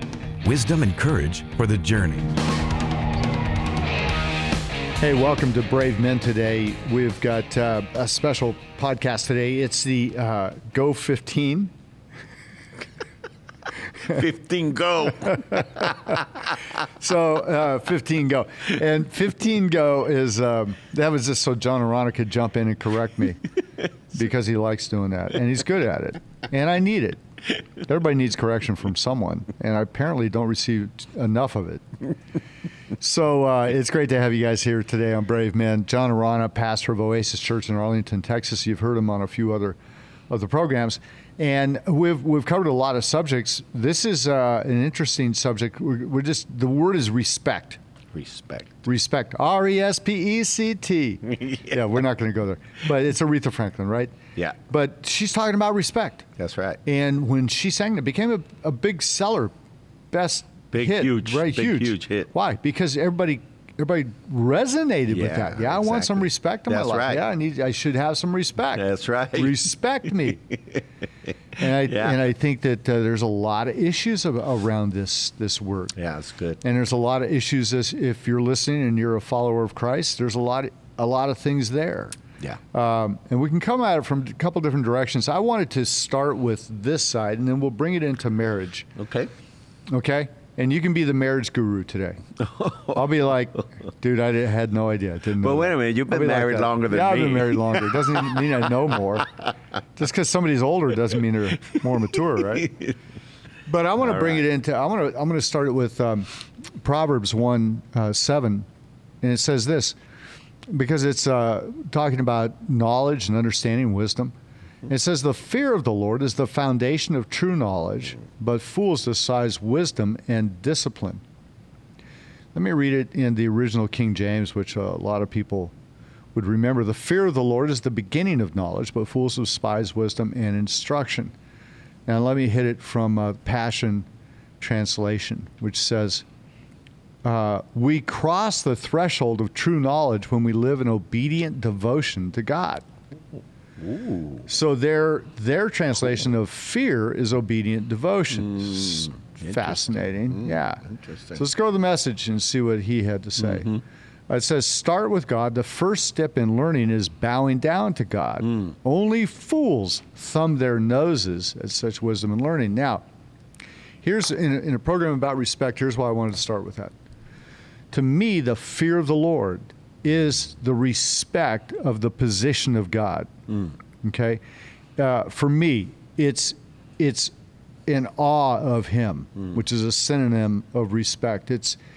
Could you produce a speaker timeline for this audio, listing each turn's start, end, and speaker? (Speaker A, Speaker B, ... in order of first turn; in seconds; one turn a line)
Speaker A: 0.4-2.4
Speaker B: 5.0-11.7
Speaker C: 14.1-15.8
Speaker B: 16.8-23.4
Speaker B: 24.1-27.2
Speaker B: 27.8-31.8
Speaker B: 33.0-39.8
Speaker B: 40.3-47.8
Speaker C: 48.1-48.8
Speaker B: 48.8-54.1
Speaker B: 54.7-56.2
Speaker C: 56.4-56.8
Speaker B: 56.9-59.5
Speaker B: 60.1-70.4
Speaker C: 60.7-62.3
Speaker C: 65.1-67.2
Speaker C: 68.7-69.6
Speaker B: 71.6-75.9
Speaker C: 71.9-72.2
Speaker C: 76.0-76.6
Speaker B: 76.6-82.2
Speaker B: 82.7-88.9
Speaker C: 89.0-89.3
Speaker B: 89.9-92.2
Speaker C: 92.4-93.0
Speaker B: 92.9-99.3
Speaker C: 95.4-98.2
Speaker B: 100.0-102.7
Speaker B: 103.7-108.7
Speaker C: 104.0-104.4
Speaker B: 109.2-110.0
Speaker B: 110.7-114.3
Speaker B: 114.8-121.2
Speaker B: 122.5-125.7
Speaker B: 126.3-131.3
Speaker B: 132.1-134.1
Speaker B: 134.6-136.2
Speaker B: 137.2-142.8
Speaker C: 143.8-144.5
Speaker B: 144.5-153.7
Speaker C: 148.8-151.4
Speaker C: 153.4-153.8
Speaker B: 154.3-163.0
Speaker B: 164.0-166.9
Speaker B: 167.9-173.3
Speaker B: 174.0-174.4
Speaker B: 175.0-177.3
Speaker B: 177.9-181.8